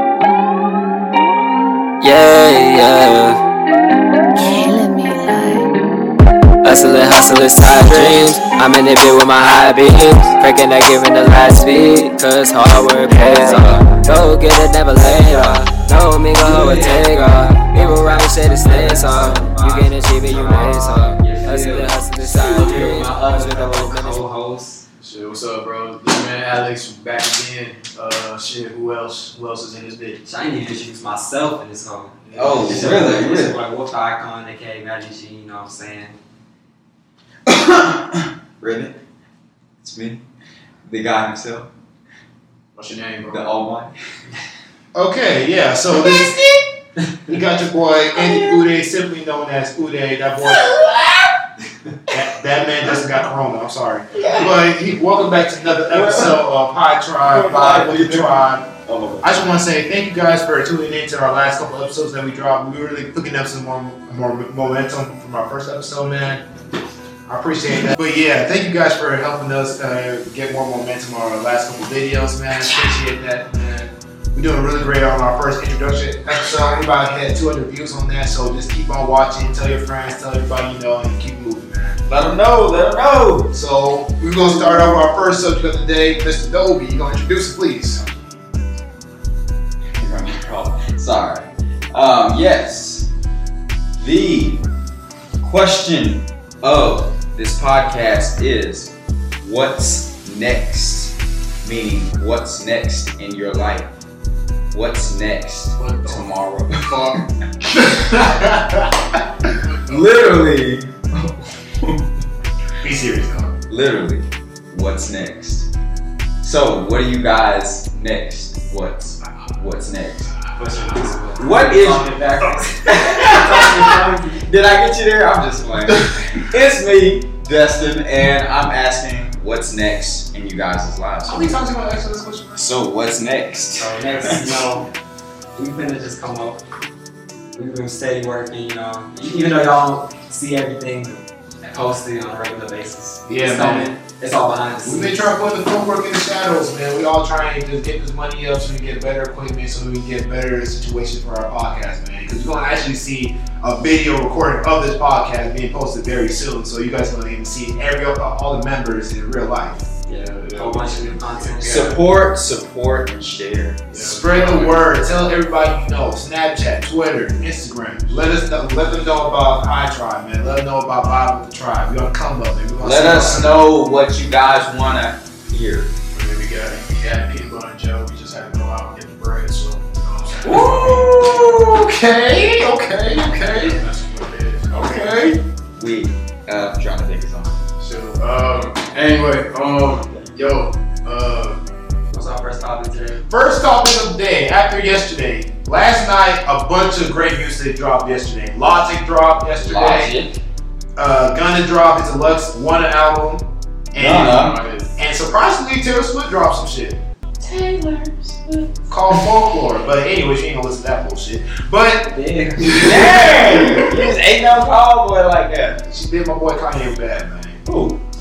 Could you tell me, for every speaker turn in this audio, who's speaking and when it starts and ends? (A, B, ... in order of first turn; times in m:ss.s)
0:02.0-0:03.4 A
0:04.4-0:05.7 A
0:06.6-0:24.2 A
0:16.4-0:17.3 B
0:17.8-0:24.8 B
0:25.0-0:30.2 C
0:30.2-0:36.2 B
0:32.2-0:33.0 C
0:32.3-0:33.6 D
0:37.4-0:39.0 D
0:39.8-0:40.2 D
0:40.8-0:41.7 D
0:42.7-0:43.6 C
0:43.3-0:43.9 D
0:44.9-0:46.4 E
0:45.9-0:46.6 D
0:47.3-0:50.8 E
0:48.1-0:48.6 D
0:50.4-0:51.3 D
0:52.1-0:58.6 E
0:54.1-0:54.6 D
0:55.9-0:56.4 D
0:57.2-0:59.3 D
0:59.2-1:06.4 E
1:07.3-1:22.0 E
1:22.1-1:23.5 D
1:23.5-1:28.0 E
1:24.4-1:24.9 D
1:30.0-1:33.1 D
1:34.0-1:34.6 D
1:35.4-1:43.9 D
1:44.7-1:47.2 D
1:45.8-1:47.2 C
1:47.7-1:49.2 E
1:49.6-1:50.4 C
1:49.9-1:52.1 D
1:52.8-1:53.5 E
1:53.7-1:55.7 D
1:56.4-2:00.3 D
2:00.6-2:04.4 B
2:01.4-2:02.2 D
2:02.8-2:11.6 D
2:11.3-2:12.7 E
2:12.6-2:14.6 D
2:13.8-2:14.8 B
2:15.5-2:16.6 B
2:17.5-2:25.2 B
2:23.3-2:23.9 E
2:24.8-2:39.8 E
2:40.1-2:42.0 B
2:40.3-2:42.0 C
2:41.6-2:43.8 D
2:43.9-2:44.9 C
2:44.0-2:53.7 E
2:52.8-2:55.9 D
2:56.1-3:01.6 C
3:00.4-3:03.8 E
3:03.1-3:05.2 C
3:04.7-3:05.4 E
3:05.8-3:07.6 D
3:07.8-3:11.6 C
3:12.1-3:13.2 B
3:13.3-3:20.1 E
3:19.6-3:20.4 D
3:21.0-3:27.0 E
3:24.0-3:24.6 D
3:24.1-3:24.9 C
3:27.4-3:28.7 D
3:28.9-3:32.1 E
3:32.0-3:34.0 B
3:32.7-3:33.8 E
3:32.7-3:35.8 D
3:35.9-3:37.6 E
3:37.6-3:37.9 D